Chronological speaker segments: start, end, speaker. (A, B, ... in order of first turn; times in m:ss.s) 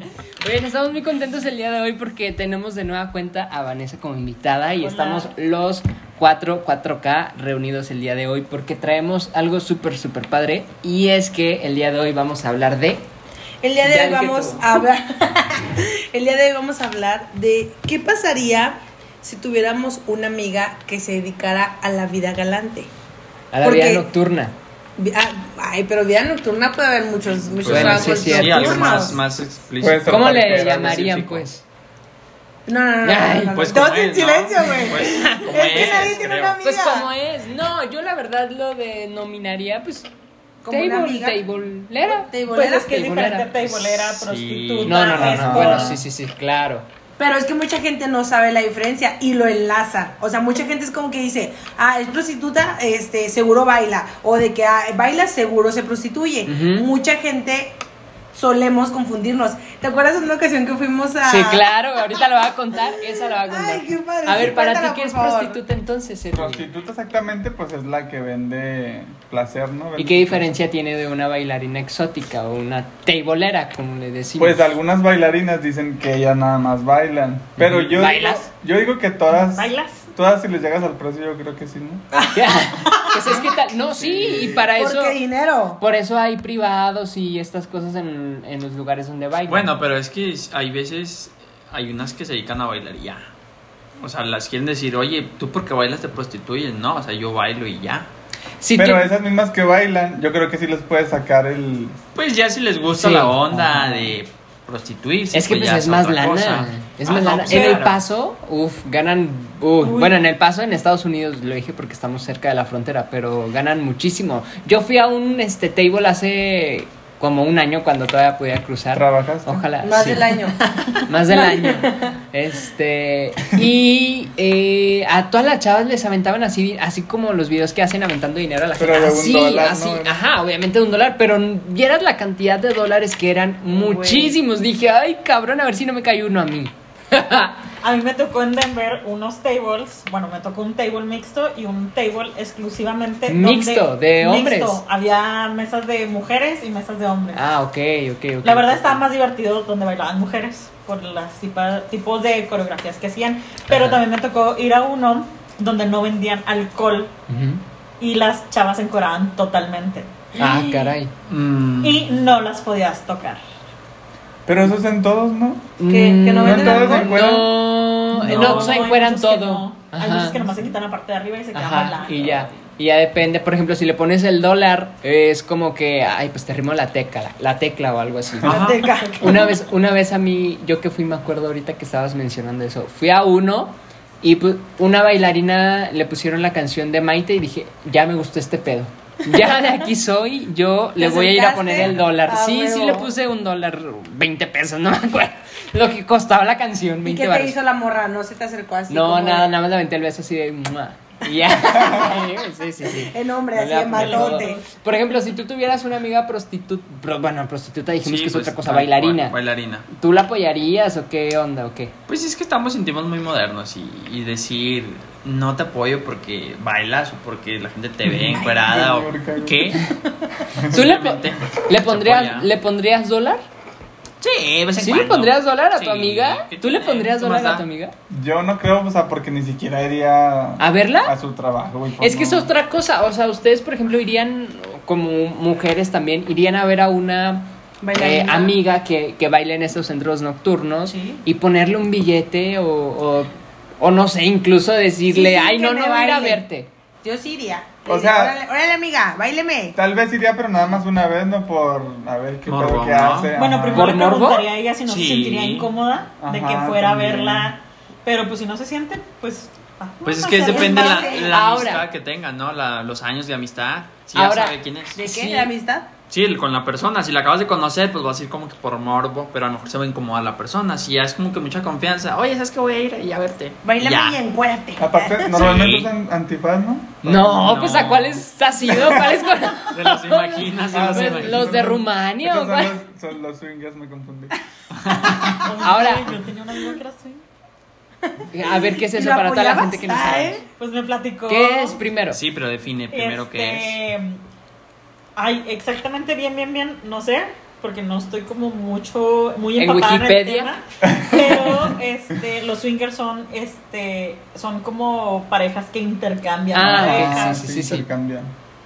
0:00.4-0:13.1 A
0:04.8-0:05.3 B
0:13.6-0:22.9 C
0:13.8-0:14.7 A
0:23.5-0:24.6 A
0:23.6-0:24.1 C
0:25.0-0:29.2 C
0:27.4-0:31.4 D
0:27.7-0:29.2 A
0:29.8-0:31.4 E
0:30.1-0:31.6 A
0:32.7-0:37.1 C
0:33.0-0:33.6 A
0:33.5-0:36.6 D
0:35.0-0:40.1 A
0:40.6-0:41.4 C
0:40.7-0:43.5 A
0:42.1-0:43.0 C
0:42.5-0:46.0 B
0:44.1-0:46.0 D
0:44.8-0:46.9 A
0:45.2-0:45.9 E
0:47.2-0:57.8 C
0:56.5-0:56.9 A
0:58.3-1:01.7 C
1:01.2-1:06.7 A
1:02.9-1:05.6 C
1:06.3-1:10.6 E
1:10.0-1:14.7 A
1:14.4-1:22.0 E
1:17.6-1:18.5 A
1:19.3-1:20.1 B
1:22.3-1:25.2 A
1:22.9-1:23.4 C
1:24.0-1:24.6 D
1:24.7-1:25.8 C
1:25.8-1:29.7 A
1:29.5-1:33.3 D
1:34.0-1:38.1 D
1:38.6-1:39.1 A
1:38.8-1:42.0 E
1:42.2-1:48.0 D
1:42.9-1:44.1 A
1:45.3-2:00.4 A
1:49.8-1:50.2 B
1:58.9-1:59.7 E
1:59.8-2:02.1 C
2:01.0-2:17.6 A
2:08.8-2:10.2 E
2:13.7-2:14.4 C
2:17.8-2:27.4 B
2:23.3-2:24.8 A
2:27.4-2:29.0 A
2:28.4-2:37.1 B
2:33.7-2:34.0 A
2:37.3-2:37.6 A
2:38.0-2:40.1 B
2:40.4-2:40.9 C
2:40.4-2:41.1 A
2:41.3-2:42.1 D
2:41.8-2:43.4 B
2:44.5-2:45.7 E
2:45.8-2:50.4 A
2:45.9-2:47.1 C
2:46.4-2:47.6 E
2:48.2-2:48.7 E
2:48.3-2:52.6 B
2:51.5-2:58.5 A
2:58.4-2:58.7 E
2:58.5-2:58.9 D
2:58.5-2:59.5 C
2:58.8-2:59.4 B
2:59.2-3:17.6 A
3:11.0-3:13.1 C
3:17.1-3:19.5 C
3:18.9-3:29.4 A
3:21.9-3:22.2 C
3:22.8-3:24.6 C
3:23.9-3:24.6 B
3:28.0-3:29.9 D
3:29.9-3:31.9 A
3:32.1-3:39.9 D
3:38.2-3:39.8 E
3:40.6-3:40.9 E
3:40.7-3:42.5 D
3:40.7-3:43.4 A
3:44.2-3:47.6 D
3:44.8-3:47.9 A
3:48.1-3:52.5 E
3:50.6-3:51.1 A
3:52.0-4:06.7 A
3:57.8-3:58.6 C
4:00.9-4:01.2 B
4:05.1-4:06.4 C
4:07.0-4:09.8 C
4:07.9-4:08.4 E
4:09.8-4:14.1 E
4:12.5-4:13.4 D
4:13.4-4:21.3 B
4:13.7-4:14.5 A
4:14.9-4:15.7 D
4:16.2-4:17.5 E
4:20.0-4:25.0 D
4:20.4-4:21.3 C
4:21.3-4:21.9 A
4:24.1-4:25.5 A
4:25.0-4:25.9 C
4:26.1-4:34.2 D
4:33.6-4:35.4 C
4:34.8-4:37.0 E
4:35.4-4:35.9 D
4:37.0-4:38.2 D
4:37.0-4:42.8 A
4:39.7-4:41.6 D
4:40.7-4:44.4 E
4:44.8-4:45.4 D
4:45.4-4:47.2 B
4:45.6-4:46.1 A
4:48.1-4:50.4 C
4:48.3-4:50.4 A
4:50.6-4:51.8 B
4:51.3-4:52.2 A
4:52.1-4:53.8 D
4:52.9-4:54.2 B
4:55.2-5:07.4 B
4:59.6-5:00.5 A
5:00.8-5:01.6 E
5:06.5-5:07.8 A
5:06.6-5:08.3 E